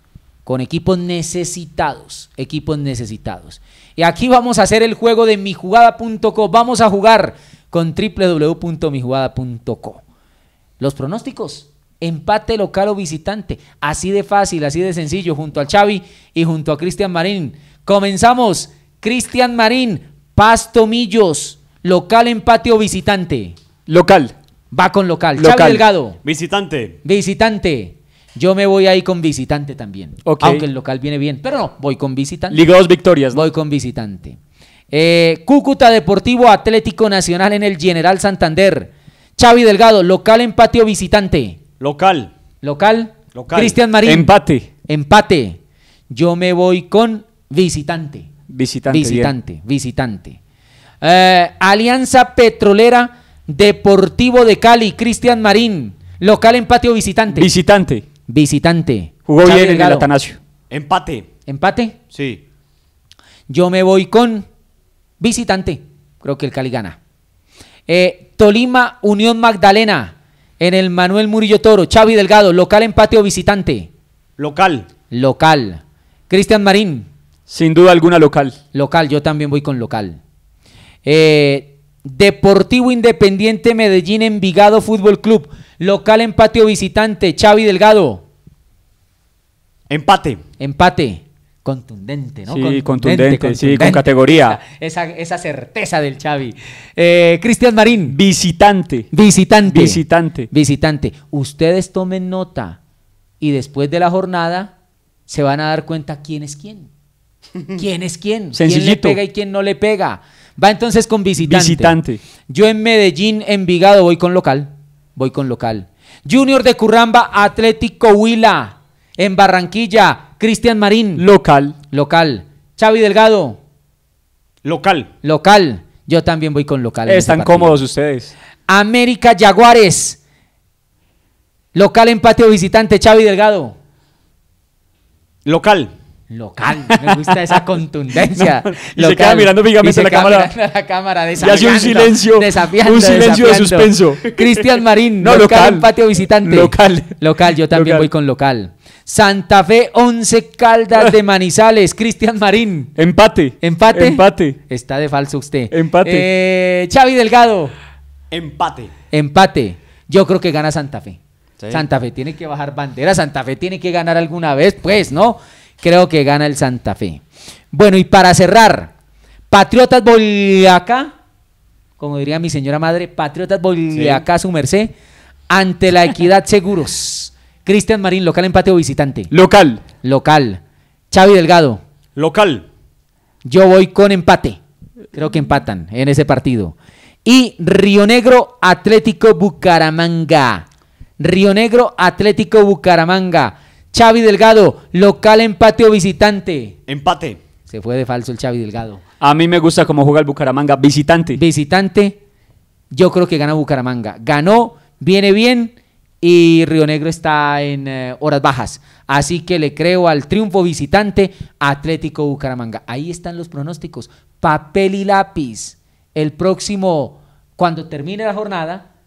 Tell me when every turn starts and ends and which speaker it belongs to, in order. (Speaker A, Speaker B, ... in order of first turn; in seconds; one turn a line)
Speaker A: 0.5-10.0
Speaker A: 10.8-23.6
Speaker B: 23.9-24.3
Speaker A: 24.7-26.2
Speaker B: 25.4-25.8
Speaker C: 26.2-27.0
Speaker A: 27.0-32.6
Speaker B: 30.2-30.6
Speaker B: 32.5-33.5
Speaker A: 33.3-34.4
Speaker A: 34.9-41.6
Speaker C: 41.8-42.3
Speaker A: 42.6-44.3
Speaker C: 43.3-43.8
Speaker B: 44.0-44.7
Speaker A: 44.9-45.6
Speaker A: 46.1-48.3
Speaker B: 48.5-49.3
Speaker A: 48.9-50.4
Speaker A: 51.0-57.5
Speaker B: 57.3-58.0
Speaker A: 58.3-60.1
Speaker B: 59.3-60.4
Speaker C: 60.7-61.3
Speaker A: 61.5-62.0
Speaker C: 62.1-62.4
Speaker A: 63.5-64.5
Speaker A: 65.2-67.0
Speaker A: 67.9-73.9
Speaker C: 74.4-74.9
Speaker A: 75.1-77.1
Speaker B: 77.5-78.6
Speaker A: 78.7-80.2
Speaker A: 81.0-88.2
Speaker C: 89.9-90.4
Speaker A: 90.6-98.2
Speaker B: 92.5-94.6
Speaker B: 98.1-99.1
Speaker A: 99.1-102.8
Speaker B: 99.7-100.5
Speaker A: 103.4-104.7
Speaker A: 105.3-106.9
Speaker A: 107.7-112.0
Speaker B: 108.5-109.2
Speaker B: 111.4-112.2
Speaker A: 112.5-121.2
Speaker B: 121.2-121.8
Speaker A: 121.9-123.6
Speaker C: 124.7-125.1
Speaker A: 125.2-127.8
Speaker B: 127.1-128.3
Speaker A: 128.7-130.2
Speaker A: 131.8-133.8
Speaker C: 135.4-135.9
Speaker A: 136.3-152.9
Speaker B: 136.9-137.6
Speaker B: 138.3-140.5
Speaker B: 141.4-144.4
Speaker B: 145.2-145.9
Speaker B: 146.4-147.1
Speaker B: 147.7-148.1
Speaker B: 153.0-154.6
Speaker A: 153.6-157.7
Speaker B: 155.7-156.2
Speaker C: 158.3-158.9
Speaker A: 159.1-161.2
Speaker A: 161.7-168.9
Speaker A: 169.5-171.1
Speaker A: 172.0-174.9
Speaker C: 173.9-174.2
Speaker A: 175.5-179.3
Speaker B: 179.3-179.8
Speaker A: 180.0-181.8
Speaker C: 182.2-182.7
Speaker A: 183.4-184.6
Speaker A: 185.1-190.7
Speaker A: 191.2-196.8
Speaker C: 196.9-197.4
Speaker A: 197.7-199.0
Speaker B: 199.2-201.4
Speaker A: 201.3-202.2
Speaker A: 202.9-218.8